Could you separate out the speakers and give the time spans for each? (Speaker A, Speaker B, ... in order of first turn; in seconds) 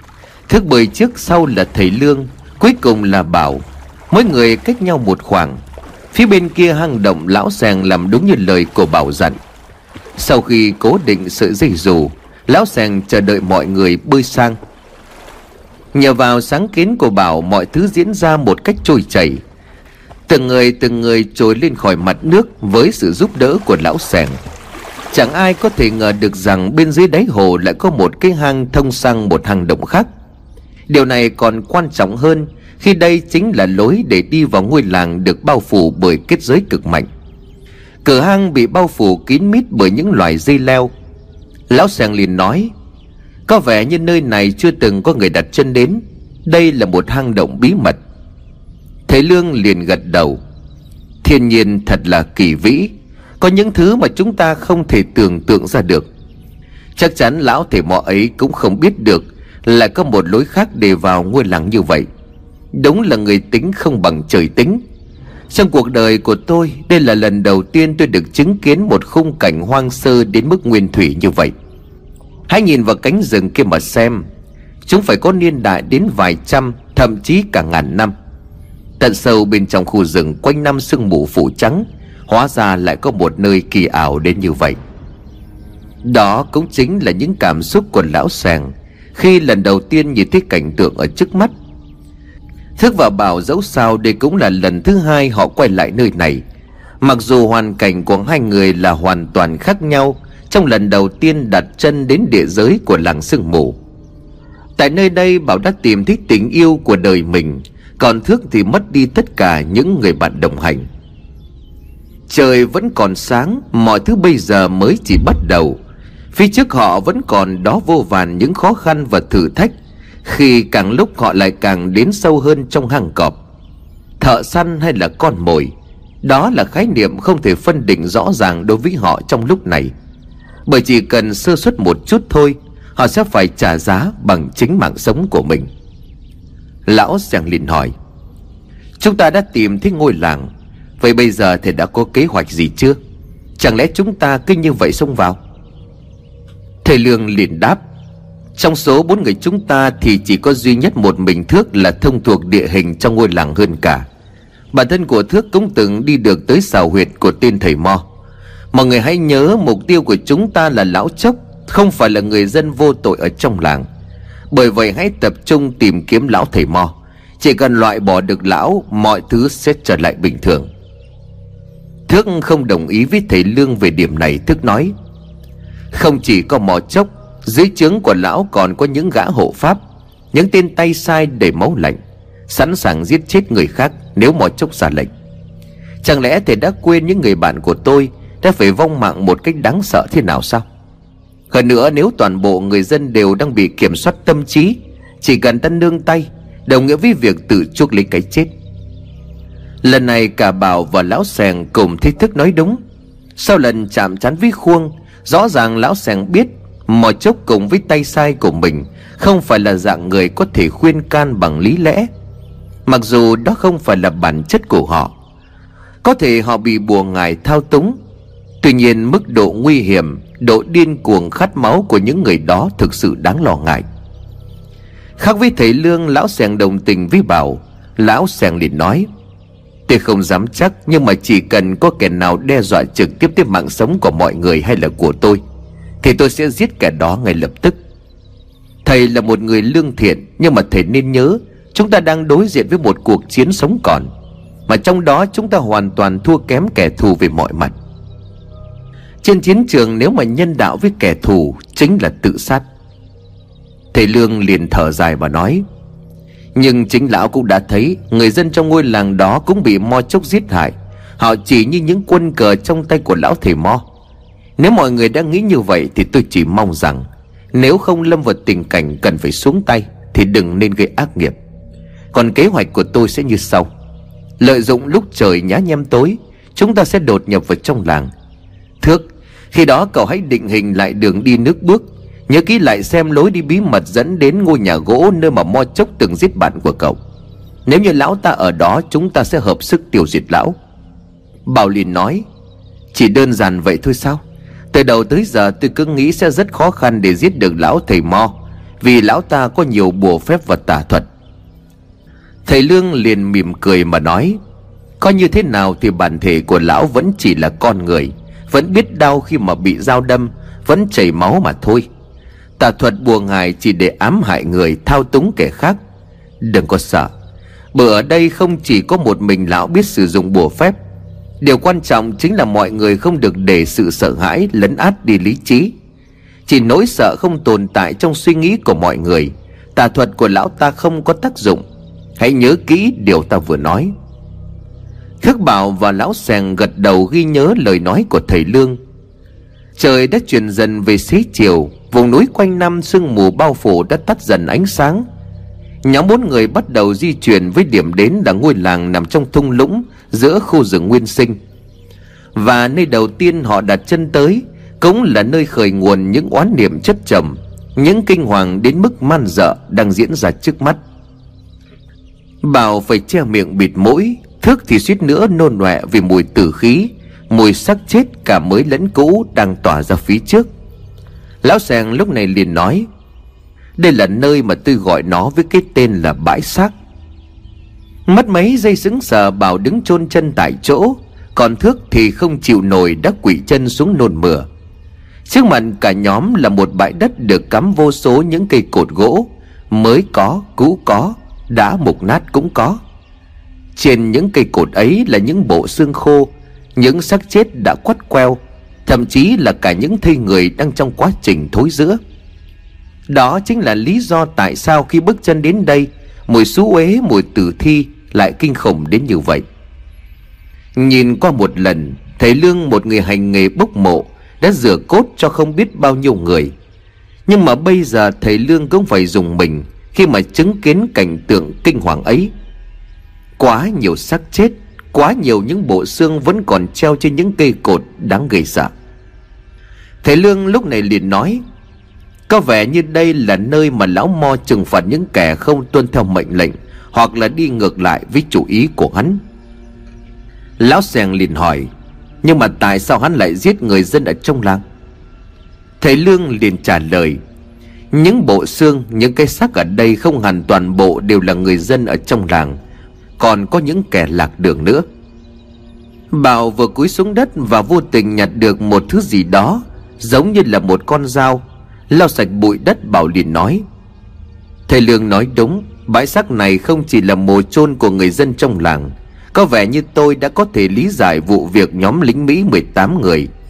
Speaker A: 0.5-5.6, 6.1-9.4, 10.2-14.6, 15.9-19.4, 20.3-24.4, 25.1-30.1, 30.9-37.1, 38.0-40.9, 41.7-42.7, 43.5-48.0, 49.1-50.4, 51.2-56.1, 57.0-62.1, 62.7-64.8, 65.5-71.5, 72.5-74.2, 74.9-78.1, 79.0-84.8, 86.0-91.5, 92.8-96.4, 97.0-103.8, 104.8-110.9, 112.3-115.8, 116.3-119.7, 120.2-123.4, 124.2-125.7, 126.2-129.9, 130.7-135.7, 136.9-137.9, 139.0-143.0, 143.6-145.4, 146.8-147.8, 148.6-154.1, 154.7-158.0, 158.7-163.9, 164.5-170.7, 172.1-174.9, 175.9-179.8, 180.3-185.1, 186.0-190.7, 191.5-198.5, 199.8-202.8, 203.4-212.1, 212.9-215.1, 216.0-218.0, 218.6-223.8, 225.2-229.1, 229.9-235.4, 236.0-237.8, 238.8-244.1, 244.7-247.7, 249.2-252.6, 253.9-255.6, 256.6-263.8, 264.6-271.4, 272.1-273.7, 274.4-278.1, 278.8-287.0, 287.7-290.6, 291.5-292.2, 292.9-294.2, 294.7-301.1, 302.5-304.4, 305.0-311.9, 312.6-315.8, 316.4-317.1, 317.7-320.8, 321.4-325.7, 326.5-331.6, 332.2-333.9, 335.2-338.8, 339.8-345.1, 345.8-351.4, 352.4-360.8, 362.4-370.5, 371.4-372.9, 373.8-376.7, 378.1-384.5, 385.3-392.8, 393.8-402.0, 403.1-409.4, 410.8-416.5, 417.3-422.3, 423.4-428.7, 430.0-431.4, 432.3-439.2, 440.6-441.7, 442.2-444.6, 445.8-447.2, 447.9-452.6, 453.2-454.9, 456.1-463.6, 464.7-473.3